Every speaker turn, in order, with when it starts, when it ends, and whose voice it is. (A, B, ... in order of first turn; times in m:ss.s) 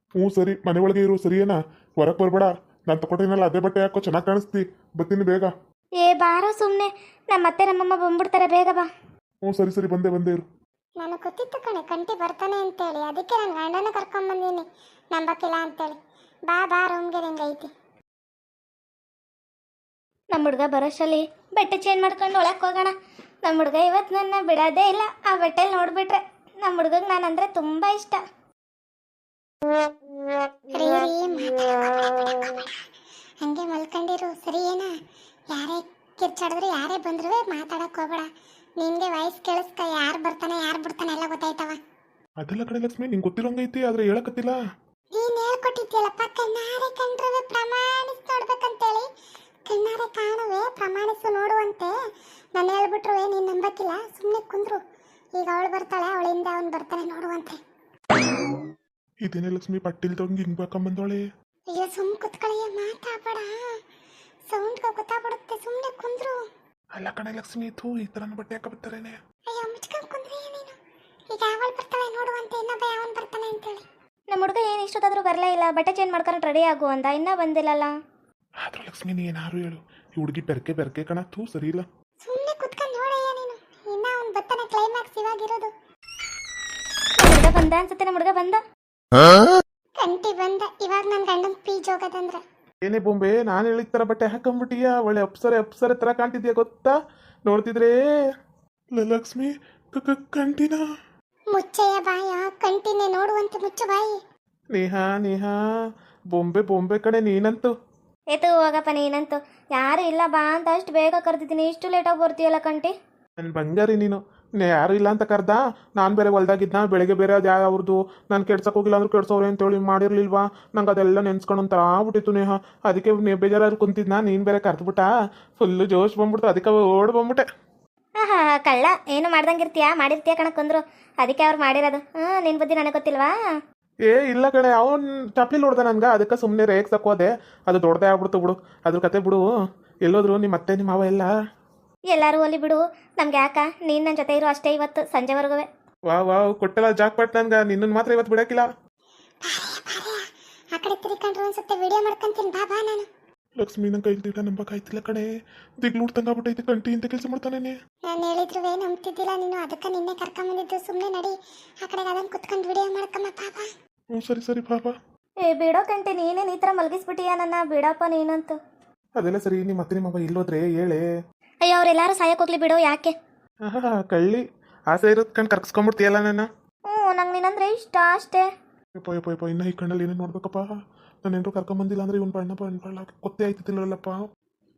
0:00.2-0:05.5 A
0:06.0-0:08.9 B
0:09.4-0:10.5 A
0:11.0-0:16.0 C
0:16.5-0:17.7 C
0:20.3-0:22.9 B
0:23.4-0:28.2 B
0:30.7-0:32.8 C
0:33.4-0:34.9 C
0:35.5-0:38.3 C
0:38.8-0:41.8 C
0:42.4-0:44.6 A
0:45.1-0:49.1 C
0:49.7-0:51.9 C
0:52.6-0:54.8 C
0:55.4-0:57.6 C
0:59.2-1:01.3 A
1:01.7-1:03.5 C
1:04.5-1:06.4 C
1:07.0-1:09.2 A
1:09.5-1:10.8 C
1:11.3-1:13.8 C
1:14.3-1:18.0 B
1:18.6-1:21.9 A
1:22.2-1:25.7 C
1:27.2-1:28.6 B
1:30.0-1:32.4 C
1:32.8-1:38.0 A
1:39.0-1:40.8 A
1:41.5-1:44.2 C
1:44.7-1:45.6 A
1:46.3-1:47.7 A
1:48.3-1:52.9 B
1:53.4-2:07.5 A
2:08.2-2:13.3 B
2:14.1-2:19.4 A
2:20.1-2:21.3 A
2:22.1-2:25.7 B
2:26.1-2:28.7 A
2:29.4-2:30.2 C
2:30.7-2:33.1 C
2:33.6-2:35.3 A
2:35.8-2:37.8 A
2:38.1-2:43.7 C
2:44.1-2:45.0 A
2:45.5-2:48.6 B
2:49.2-2:51.0 A
2:51.6-2:53.2 B
2:53.6-2:56.5 A
2:56.9-2:58.5 B
2:59.0-3:04.2 A